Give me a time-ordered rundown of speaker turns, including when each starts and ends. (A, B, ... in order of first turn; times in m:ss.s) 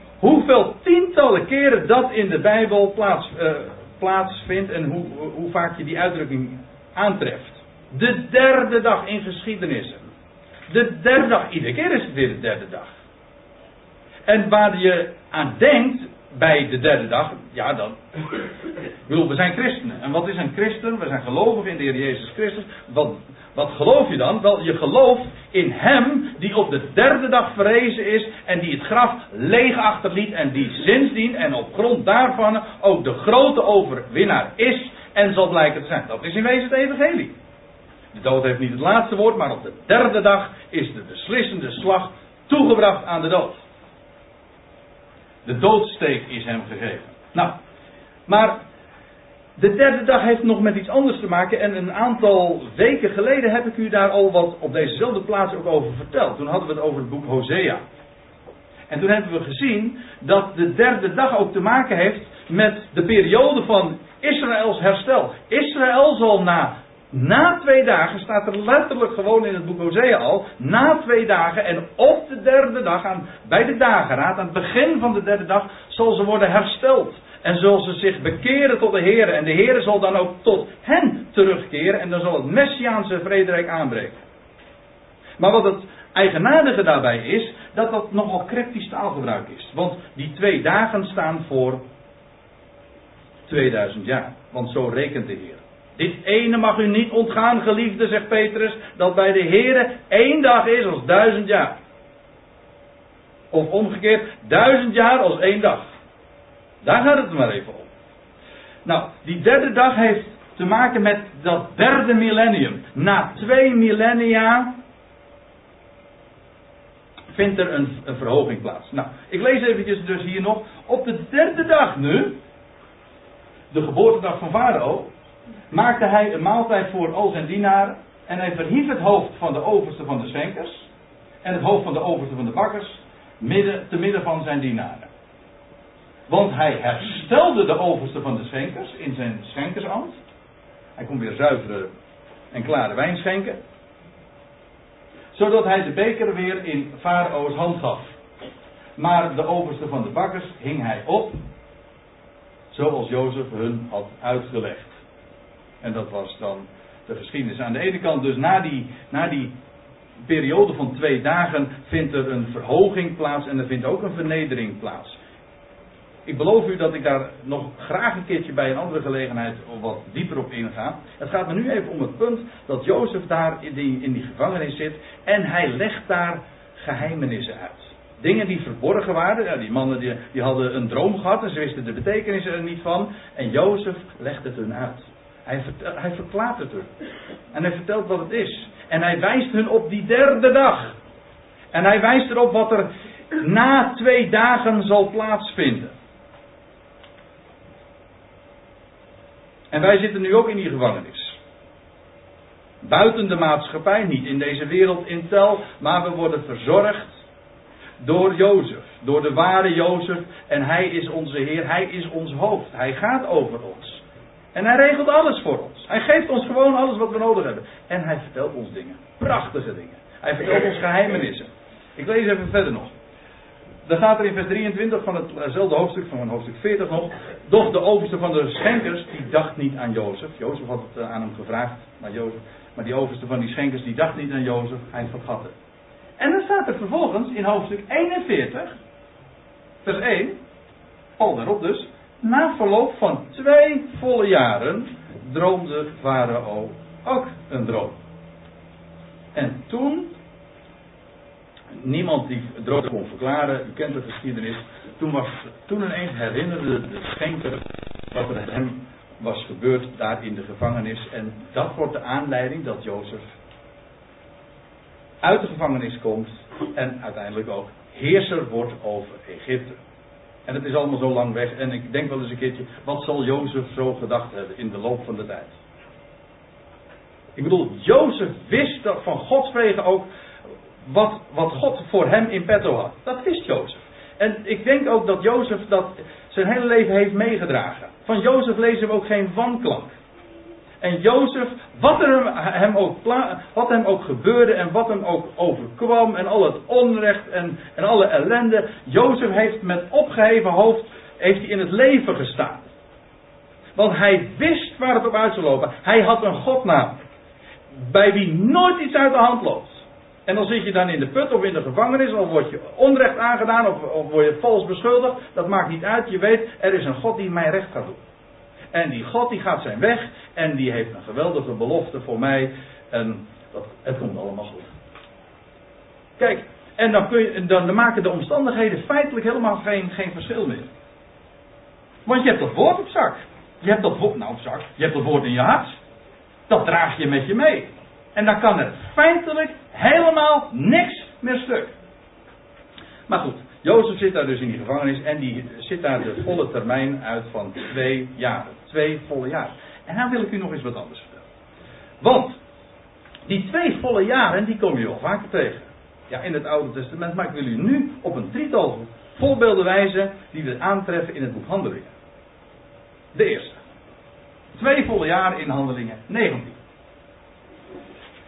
0:00.2-0:10.1 A
0:10.7-0:13.0 A
0:14.3-0:18.0 A
0:19.1-0:37.3 A
0:38.1-0:43.6 A
0:45.4-0:47.6 A
0:48.3-0:48.6 A
0:49.6-0:57.8 A
0:58.9-1:24.2 A
1:25.4-1:31.8 A
1:33.5-1:41.8 A
1:43.5-1:45.9 A
1:46.8-1:47.9 A
1:48.8-1:54.8 A
1:57.3-2:02.4 A
2:03.7-2:05.1 A
2:05.7-2:10.9 A
2:11.4-2:15.1 A
2:16.3-2:20.2 A
2:21.0-2:21.9 A
2:22.5-2:23.6 A
2:25.3-2:28.2 A
2:29.0-2:31.4 A
2:32.7-2:35.0 A
2:35.8-2:39.5 A
2:40.2-2:45.2 A
2:46.3-3:06.9 A
3:07.5-3:11.0 A
3:11.7-3:15.9 A
3:19.7-3:21.4 A
3:22.8-3:27.2 A
3:28.0-3:34.0 A
3:34.5-3:42.9 A
3:43.8-3:55.5 A
3:56.2-3:58.7 A
3:59.8-4:00.4 A
4:01.2-4:08.0 A
4:09.4-4:10.1 A
4:11.8-4:23.3 A
4:25.2-4:29.8 A
4:30.5-4:35.6 A
4:37.4-4:40.1 A
4:40.8-4:50.0 A
4:50.8-5:02.7 A
5:03.8-5:07.0 A
5:07.7-5:18.0 A
5:18.7-5:24.7 A
5:26.2-5:30.7 A
5:32.1-5:35.8 A
5:36.5-5:41.7 A
5:43.1-5:51.3 A
5:52.0-5:52.4 A
5:53.3-6:01.9 A
6:03.1-6:03.6 A
6:04.5-6:06.6 A